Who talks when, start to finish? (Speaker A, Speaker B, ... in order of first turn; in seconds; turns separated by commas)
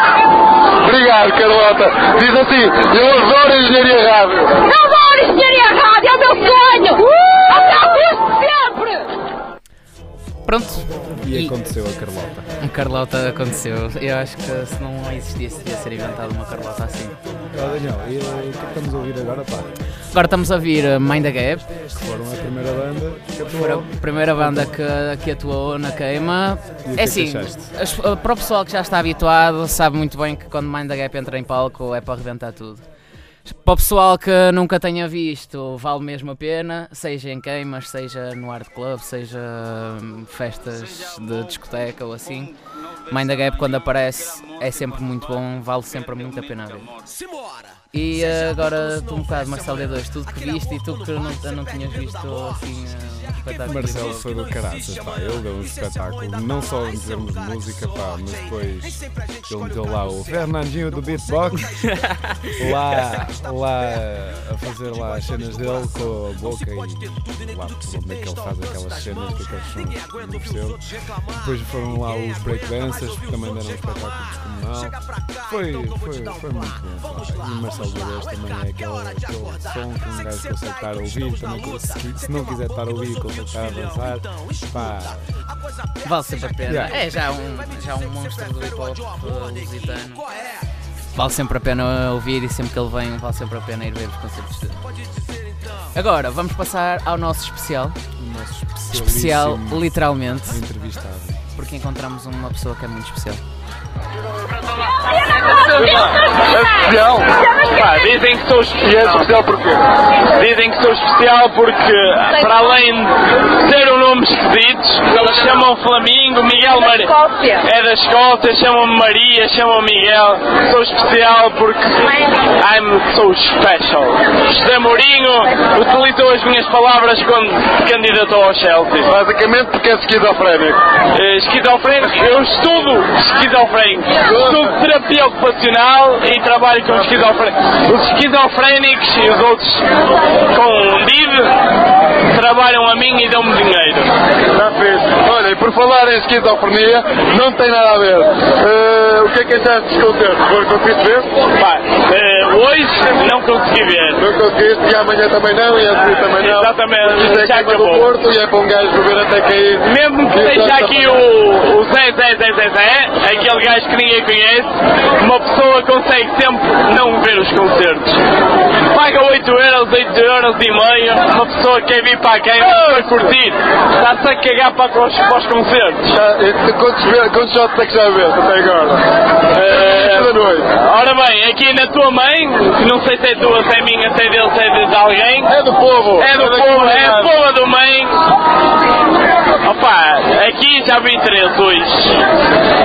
Speaker A: 0.8-4.6, Speaker B: 4.6-9.1, Speaker C: 10.4-11.5, Speaker D: 11.2-12.5, Speaker C: 12.6-17.2, Speaker D: 17.5-19.7, Speaker C: 20.1-21.8, Speaker D: 21.9-24.7, Speaker C: 23.5-32.8, Speaker D: 26.8-27.7, Speaker C: 33.5-42.5, Speaker C: 43.1-46.9, Speaker C: 47.9-54.3, Speaker D: 53.6-61.9, Speaker D: 62.6-85.3, Speaker C: 86.0-90.2, Speaker D: 86.7-87.0, Speaker C: 91.1-94.8, Speaker C: 95.9-98.0, Speaker D: 98.2-101.4, Speaker C: 98.9-100.6, Speaker C: 101.5-103.4, Speaker E: 105.5-106.3, Speaker A: 105.8-107.5, Speaker E: 107.5-109.2, Speaker A: 108.8-109.9, Speaker E: 110.3-129.1, Speaker B: 117.1-117.6, Speaker A: 129.0-130.8, Speaker E: 131.1-139.9, Speaker A: 134.3-134.7, Speaker E: 140.5-141.7, Speaker E: 142.2-144.2, Speaker A: 144.5-151.3, Speaker E: 151.5-154.2, Speaker A: 154.2-161.2, Speaker E: 156.3-158.1, Speaker E: 159.8-168.2, Speaker E: 168.8-176.1, Speaker A: 176.1-179.1, Speaker E: 179.5-185.5, Speaker A: 179.8-180.7, Speaker A: 185.5-187.3, Speaker E: 186.2-188.2, Speaker E: 189.6-192.2